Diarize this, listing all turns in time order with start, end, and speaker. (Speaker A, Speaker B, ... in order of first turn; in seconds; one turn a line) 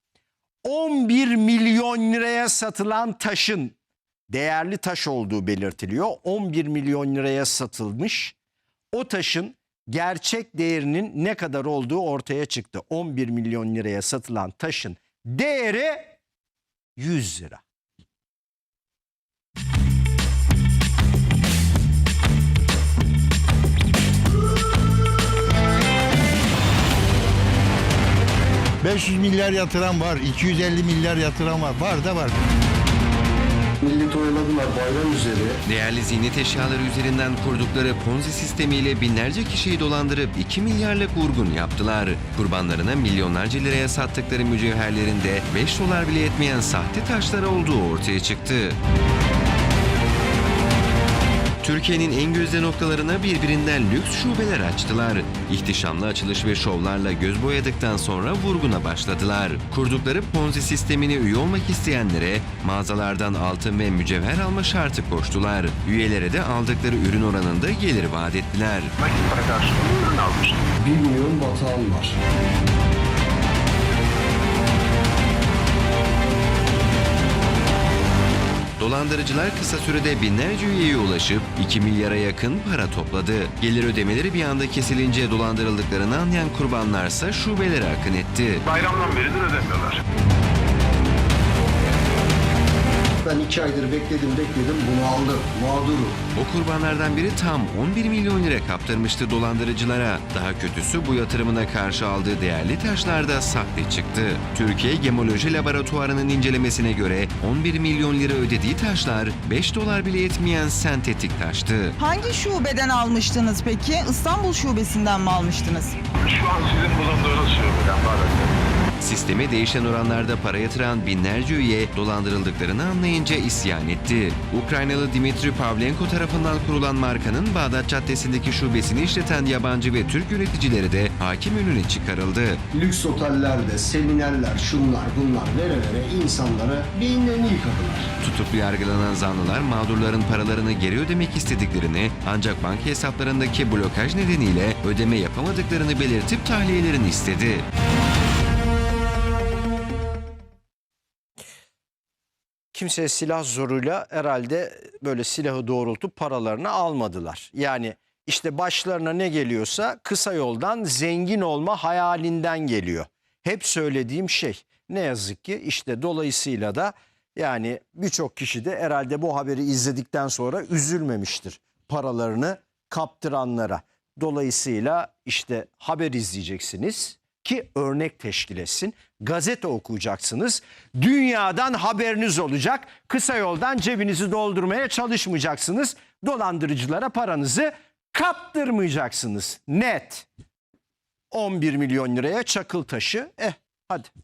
Speaker A: 0.6-3.8
Speaker A: 4.3-8.4
Speaker A: 8.9-16.1
Speaker A: 17.0-17.6
Speaker B: 28.8-32.4
Speaker C: 33.8-35.6
Speaker D: 35.6-48.8
Speaker D: 51.6-68.9
Speaker E: 69.0-70.7
Speaker C: 70.8-72.2
Speaker D: 78.8-88.7
Speaker E: 88.7-90.0
Speaker C: 93.2-96.2
Speaker D: 96.3-112.0
Speaker F: 112.0-116.0
Speaker E: 116.2-118.6
Speaker D: 119.0-132.6
Speaker C: 132.7-138.1
Speaker D: 138.2-147.7
Speaker A: 152.7-190.3
Speaker A: 191.3-194.1